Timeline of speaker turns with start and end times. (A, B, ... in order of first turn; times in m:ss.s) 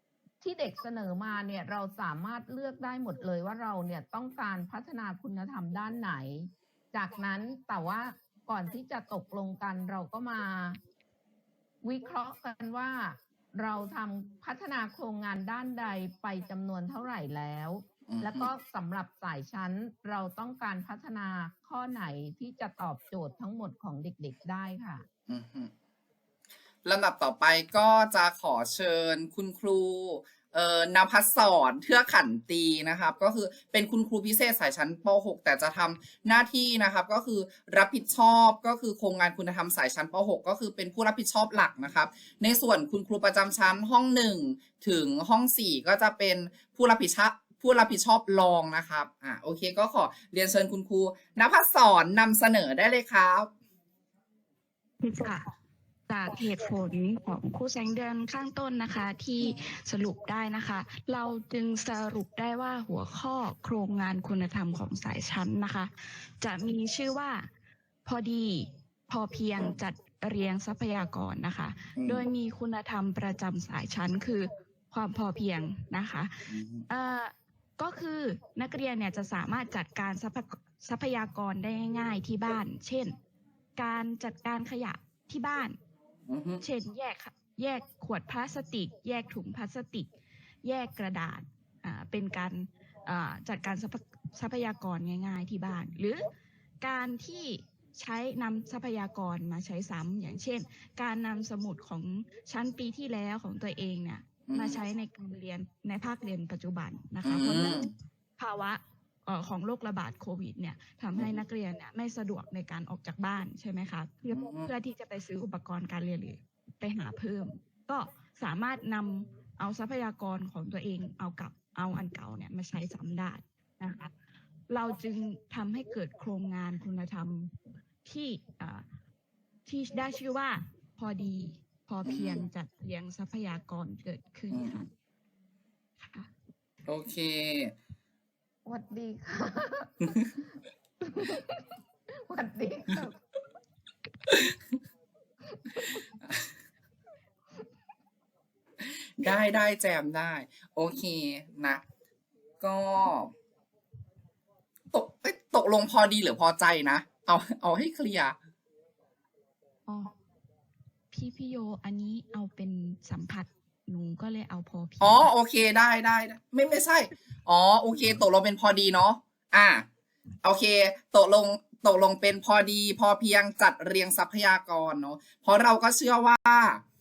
0:00.4-0:10.8 A
0:11.8-0:25.1 A
0:18.1-0:18.5 B
0:25.3-0:25.7 B
0:26.8-0:53.5 B
0:55.0-0:55.5 C
0:56.1-1:07.5 C
1:08.0-1:23.2 C
1:12.0-1:12.3 B
1:16.5-1:16.8 B
1:23.8-1:25.8 C
1:26.3-1:26.6 B
1:26.6-1:30.1 C
1:30.6-1:36.3 C
1:36.8-2:04.1 C
1:44.5-1:44.8 B
1:47.2-1:47.9 B
1:54.3-1:54.7 B
2:04.7-2:07.5 C
2:08.0-2:08.9 C
2:09.7-2:14.9 C
2:12.0-2:12.5 B
2:14.5-2:14.8 B
2:16.0-2:16.3 C
2:16.9-2:17.7 B
2:18.6-2:20.3 A
2:21.0-2:21.7 A
2:22.3-2:23.2 A
2:25.5-2:26.1 A
2:29.0-2:31.8 B
2:32.6-2:33.3 B
2:34.9-2:38.4 B
2:39.9-2:40.1 C
2:41.1-2:45.3 C
2:45.0-2:49.9 B
2:50.4-2:56.8 B